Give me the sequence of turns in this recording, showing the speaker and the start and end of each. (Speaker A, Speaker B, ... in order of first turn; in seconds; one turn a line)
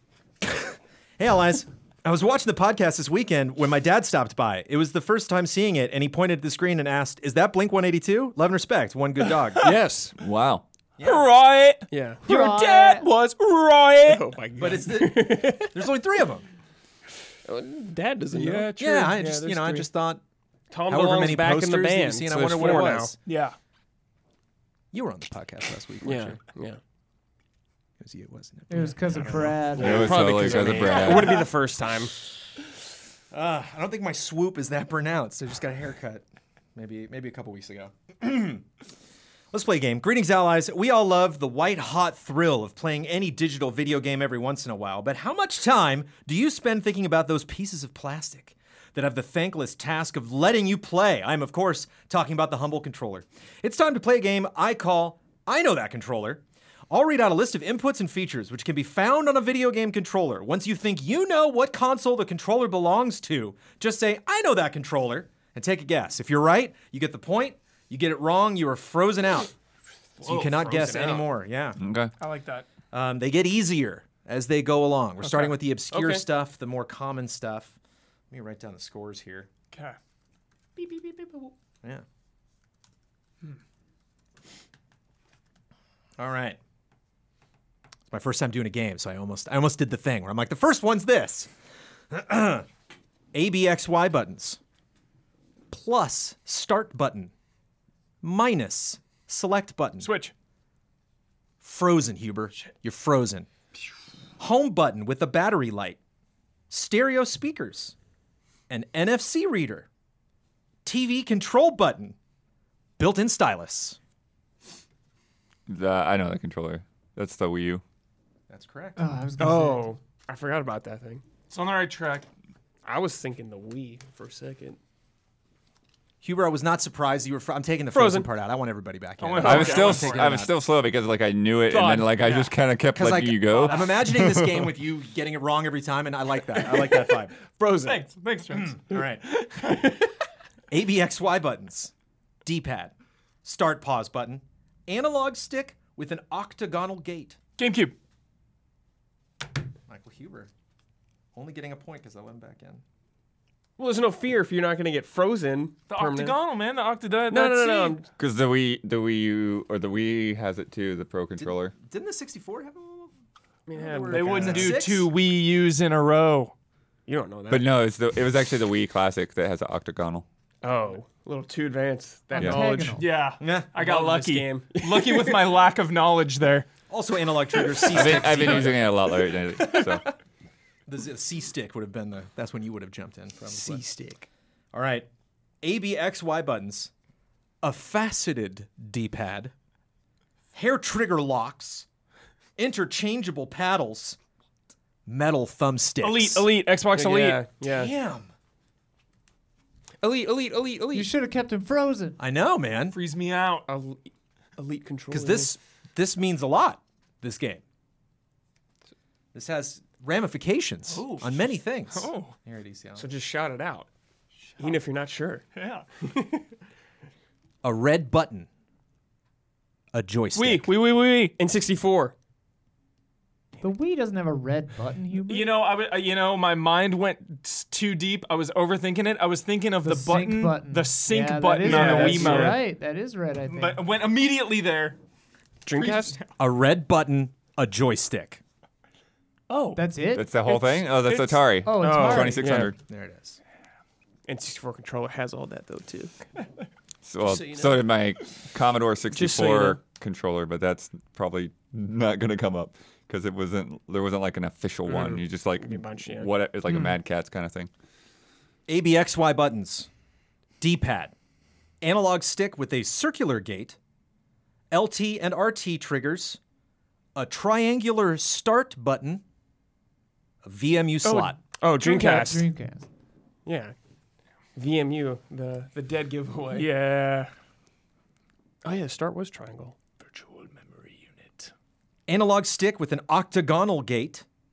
Speaker A: 0.4-9.7
Speaker B: 9.6-10.2
Speaker C: 10.2-10.6
Speaker A: 11.0-11.3
Speaker D: 11.0-14.3
Speaker B: 11.9-12.2
Speaker E: 12.3-13.1
Speaker B: 14.0-15.8
Speaker A: 14.6-16.5
Speaker B: 17.4-18.8
Speaker D: 18.3-19.9
Speaker A: 18.8-20.2
Speaker B: 20.7-23.1
Speaker A: 20.9-23.2
Speaker D: 23.2-23.6
Speaker A: 24.9-26.4
Speaker B: 26.0-26.8
Speaker A: 28.0-29.6
Speaker E: 28.7-30.3
Speaker B: 29.7-32.1
Speaker C: 29.8-31.4
Speaker A: 30.6-31.2
Speaker A: 33.3-38.6
Speaker A: 39.5-69.5
Speaker B: 70.2-71.3
Speaker A: 70.2-71.8
Speaker C: 71.8-72.1
Speaker D: 72.2-72.7
Speaker A: 72.9-77.8
Speaker D: 75.2-75.5
Speaker B: 75.9-76.2
Speaker A: 78.3-79.5
Speaker D: 79.7-80.0
Speaker D: 80.8-81.5
Speaker A: 86.2-86.6
Speaker A: 88.1-91.5
Speaker A: 92.1-92.7
Speaker A: 93.3-94.6
Speaker A: 95.7-97.3
Speaker A: 98.2-100.1
Speaker D: 100.0-100.3
Speaker A: 101.6-103.5
Speaker A: 104.4-106.0
Speaker A: 106.7-107.9
Speaker A: 108.7-109.9
Speaker A: 110.8-112.2
Speaker A: 113.0-114.0
Speaker C: 115.7-117.8
Speaker A: 118.5-119.0
Speaker E: 119.0-119.9
Speaker B: 119.4-121.2
Speaker D: 121.5-122.3
Speaker B: 122.8-124.8
Speaker A: 126.2-130.5
Speaker B: 127.9-128.3
Speaker D: 129.2-130.3
Speaker C: 129.4-134.4
Speaker D: 131.7-132.6
Speaker A: 132.9-137.4
Speaker D: 133.5-134.0
Speaker B: 137.4-138.0
Speaker D: 137.8-140.0
Speaker A: 138.7-139.3
Speaker A: 140.7-141.9
Speaker A: 142.4-147.4
Speaker D: 147.6-147.9
Speaker A: 149.9-150.5
Speaker A: 151.3-152.8
Speaker B: 153.8-156.4
Speaker D: 155.9-158.1
Speaker B: 157.3-158.1
Speaker C: 158.2-161.8
Speaker A: 161.4-163.1
Speaker B: 163.7-164.8
Speaker A: 163.7-165.1
Speaker D: 164.1-166.5
Speaker B: 167.1-167.7
Speaker C: 167.5-170.2
Speaker B: 170.6-173.1
Speaker E: 172.3-173.1
Speaker D: 172.8-176.7
Speaker A: 173.4-173.8
Speaker B: 173.8-175.6
Speaker A: 176.9-178.9
Speaker C: 177.9-180.1
Speaker A: 180.9-183.8
Speaker B: 183.5-184.3
Speaker A: 184.7-185.1
Speaker A: 185.6-186.9
Speaker A: 187.6-189.5
Speaker A: 190.5-191.9
Speaker A: 192.6-194.2
Speaker A: 195.1-196.5
Speaker D: 196.0-197.5
Speaker B: 196.9-197.9
Speaker A: 197.7-198.3
Speaker B: 200.0-201.1
Speaker E: 200.9-202.2
Speaker A: 202.2-203.0
Speaker D: 202.9-203.7
Speaker B: 203.7-205.5
Speaker A: 205.1-207.6
Speaker A: 209.3-213.1
Speaker D: 210.9-212.3
Speaker B: 213.0-213.9
Speaker B: 214.6-215.5
Speaker D: 215.5-215.9
Speaker B: 216.0-216.5
Speaker A: 217.6-218.5
Speaker A: 219.9-220.7
Speaker D: 220.3-221.4
Speaker B: 221.4-222.2
Speaker E: 223.6-225.6
Speaker D: 225.3-232.6
Speaker E: 229.8-233.8
Speaker B: 231.6-232.6
Speaker D: 233.5-235.0
Speaker B: 235.7-236.2
Speaker D: 235.7-236.3
Speaker A: 236.4-238.4
Speaker D: 239.5-239.8
Speaker E: 239.8-240.3
Speaker C: 240.1-242.8
Speaker D: 240.4-241.4
Speaker E: 241.6-242.5
Speaker B: 241.8-242.7
Speaker A: 242.9-243.4
Speaker B: 244.3-246.2
Speaker C: 247.0-257.7
Speaker B: 247.3-247.7
Speaker B: 249.1-249.8
Speaker B: 254.9-256.3
Speaker A: 258.7-259.9
Speaker A: 260.6-261.1
Speaker A: 261.8-263.8
Speaker A: 264.7-266.4
Speaker A: 267.1-269.2
Speaker A: 270.4-271.4
Speaker D: 271.0-271.4
Speaker B: 271.6-272.5
Speaker E: 271.8-272.9
Speaker B: 273.4-273.8
Speaker B: 274.6-276.8
Speaker D: 276.5-277.3
Speaker B: 278.6-279.8
Speaker D: 280.0-281.5
Speaker A: 282.1-284.2